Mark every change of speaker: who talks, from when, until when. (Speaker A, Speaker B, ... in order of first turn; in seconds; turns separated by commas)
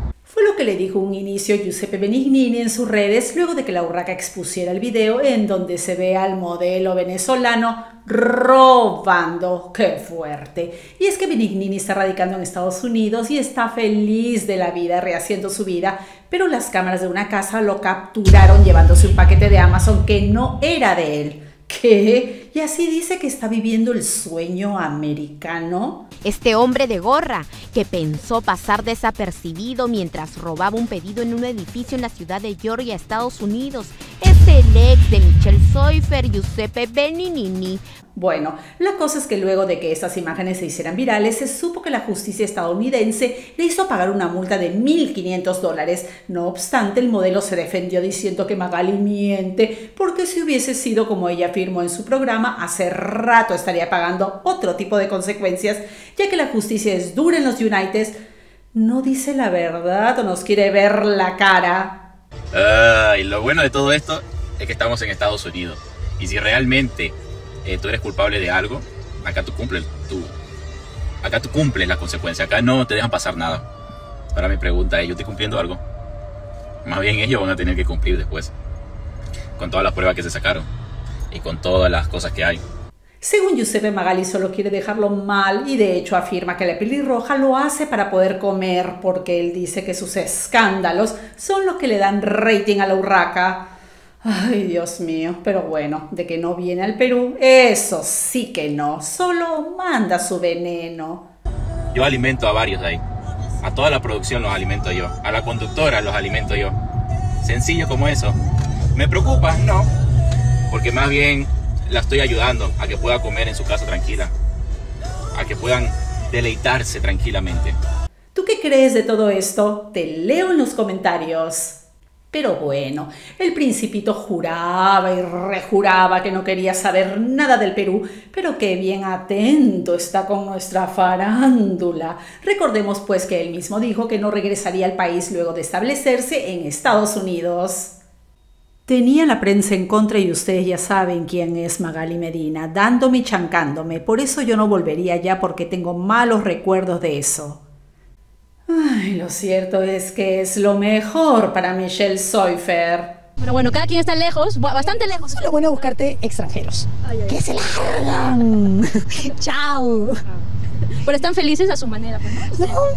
Speaker A: 0.2-26.0, Speaker B: 26.2-37.8, Speaker A: 38.1-58.1, Speaker A: 58.7-62.0, Speaker C: 62.5-70.3, Speaker C: 71.2-73.6, Speaker C: 74.3-75.8, Speaker C: 76.8-78.5, Speaker C: 79.6-80.7, Speaker C: 81.3-82.6, Speaker A: 83.2-93.7, Speaker A: 94.2-101.3, Speaker C: 101.9-103.0, Speaker C: 103.6-106.8, Speaker C: 107.4-108.4, Speaker C: 108.9-109.9, Speaker C: 110.7-114.3, Speaker C: 115.3-117.8, Speaker A: 118.3-121.8, Speaker A: 122.3-137.9, Speaker A: 138.8-147.6, Speaker A: 148.7-153.2, Speaker D: 153.4-155.9, Speaker E: 155.4-158.8, Speaker E: 159.5-160.1, Speaker D: 161.0-162.8